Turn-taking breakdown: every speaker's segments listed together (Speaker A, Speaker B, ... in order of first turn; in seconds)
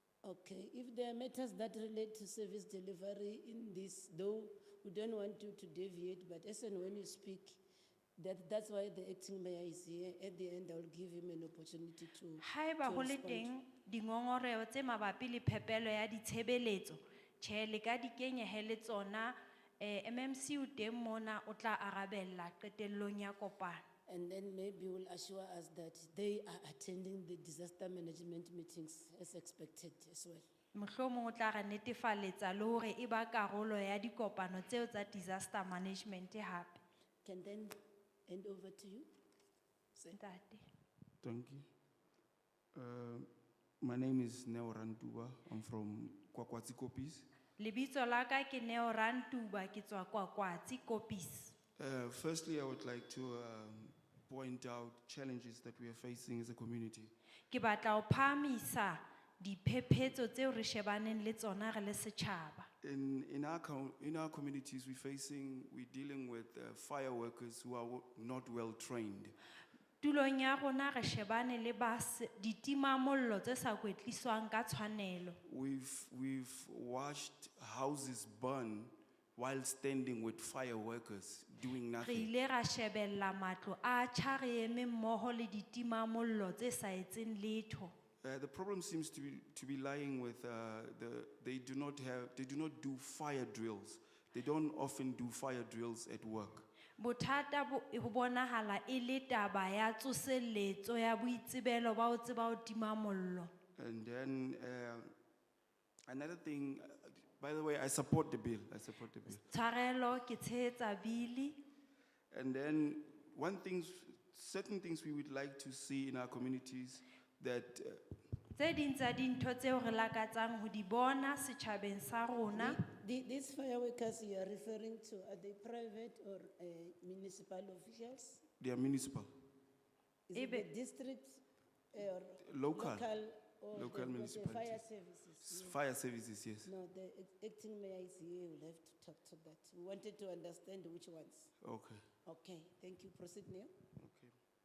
Speaker A: 0.2-7.6, 8.2-13.5, 24.1-30.4, 37.2-37.7, 38.3-39.1, 122.5-128.4, 130.3-135.8, 136.6-141.5, 142.2-143.7
Speaker B: 12.4-23.8, 30.7-36.8, 40.1-40.6, 47.6-51.5, 57.5-62.7, 70.0-75.4, 82.0-87.9, 97.0-103.5, 109.3-111.6, 118.5-122.8, 130.3-130.7
Speaker C: 41.2-41.6, 42.7-43.3, 43.8-47.3, 51.8-57.1, 62.8-69.3, 75.4-82.3, 88.2-96.7, 103.8-105.1, 106.1-109.4, 112.3-118.0, 128.6-129.3, 132.4-133.1, 133.7-134.8, 135.4-136.7, 141.6-142.1, 144.0-144.3